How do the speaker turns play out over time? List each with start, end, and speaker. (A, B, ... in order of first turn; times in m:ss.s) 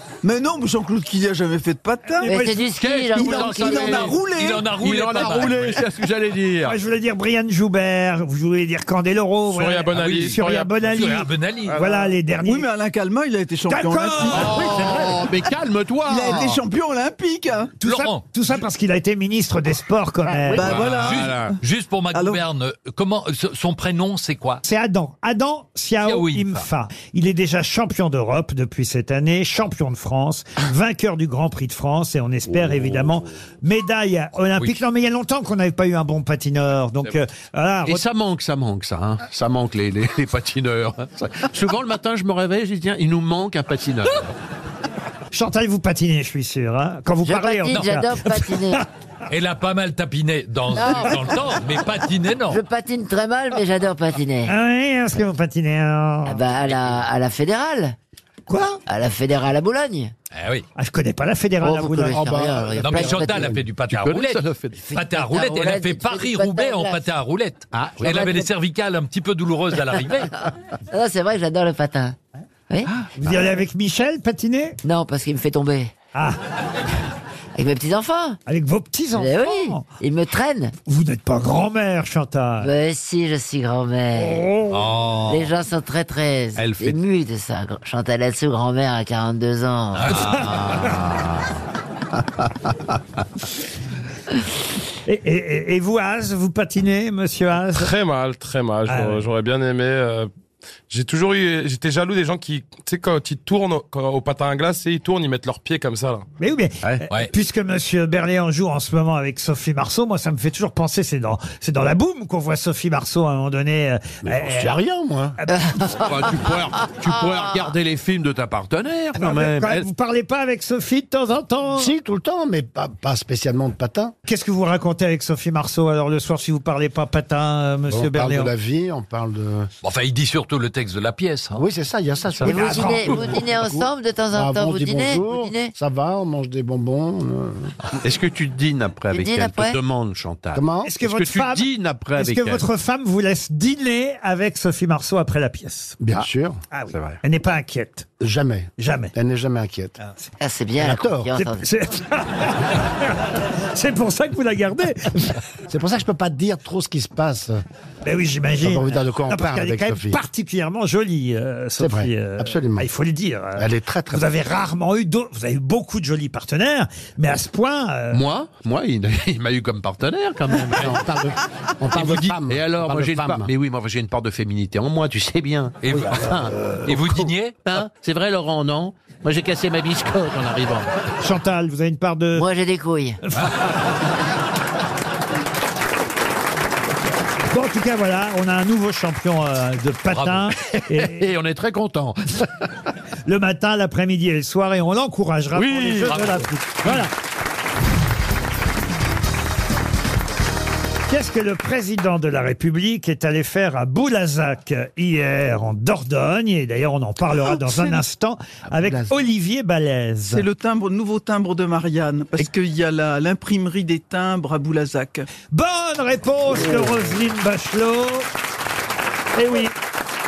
0:00.2-0:02.4 A
0:02.2-0:02.7 B
0:02.2-0:04.1 C
0:02.6-0:06.8 D
0:03.1-0:04.8 A
0:04.2-0:05.9 E
0:06.7-0:12.7 B
0:09.5-0:10.7 F
0:10.0-0:11.8 E
0:11.8-0:12.0 D
0:12.4-0:14.8 A
0:13.7-0:15.3 B
0:14.2-0:16.6 D
0:16.0-0:17.7 A
0:17.8-0:20.9 B
0:17.8-0:18.2 E
0:20.5-0:21.5 A
0:20.6-0:21.5 D
0:20.6-0:24.6 E
0:22.1-0:22.4 A
0:24.6-0:38.0 B
0:26.0-0:26.6 E
0:32.5-0:33.1 D
0:37.8-0:44.3 D
0:45.3-0:48.8 B
0:47.2-0:48.8 C
0:49.3-0:52.6 E
0:50.7-0:51.3 C
0:52.5-0:54.5 C
0:54.5-0:56.4 B
0:56.2-0:57.9 C
0:56.6-0:57.0 E
0:58.5-0:58.8 B
0:58.9-1:00.1 C
1:00.3-1:00.6 E
1:00.8-1:02.5 B
1:01.6-1:03.5 C
1:02.1-1:03.6 G
1:02.8-1:10.3 E
1:03.9-1:04.8 D
1:04.8-1:07.0 C
1:07.7-1:08.4 D
1:10.9-1:12.2 C
1:13.2-1:14.8 B
1:14.8-1:15.9 C
1:16.1-1:16.4 B
1:17.5-1:18.4 C
1:18.4-1:19.9 B
1:19.2-1:20.7 C
1:20.8-1:22.7 B
1:22.6-1:24.5 C
1:24.1-1:24.9 B
1:24.7-1:25.5 E
1:25.3-1:30.3 C
1:26.6-1:27.0 D
1:30.0-1:30.4 E
1:30.0-1:31.5 D
1:35.0-1:37.9 B
1:37.7-1:40.3 F
1:38.9-1:39.2 B
1:40.9-1:46.2 F
1:46.4-1:54.7 B
1:54.3-1:55.4 G
1:55.8-1:59.8 D
1:59.2-2:01.9 B
2:01.8-2:04.1 G
2:04.2-2:08.5 B
2:07.9-2:09.7 G
2:09.8-2:11.6 E
2:11.6-2:17.8 G
2:12.4-2:13.3 B
2:12.4-2:15.7 C
2:18.0-2:22.6 D
2:19.1-2:19.8 C
2:20.5-2:20.9 G
2:20.8-2:26.0 B
2:26.0-2:26.6 G
2:26.7-2:28.1 B
2:28.2-2:29.9 G
2:28.8-2:29.1 B
2:30.4-2:31.6 C
2:30.8-2:31.3 G
2:31.4-2:35.4 B
2:35.7-2:37.6 G
2:38.0-2:48.2 B
2:38.6-2:40.2 G
2:41.8-2:42.9 G
2:43.6-2:44.3 G
2:48.1-2:51.0 D
2:50.6-2:53.5 G
2:52.0-3:00.9 D
2:52.0-2:52.3 E
2:55.8-2:56.3 E
2:56.1-2:56.8 G
2:56.8-2:57.6 E
3:01.2-3:02.5 B
3:02.4-3:03.2 C
3:07.5-3:11.3 B
3:10.1-3:10.5 E
3:10.9-3:12.5 D
3:13.2-3:17.1 B
3:15.6-3:17.1 D
3:21.1-3:30.4 B
3:27.6-3:27.9 G
3:28.7-3:29.1 G
3:30.3-3:35.3 A
3:35.5-3:38.3 B
3:39.4-3:39.7 B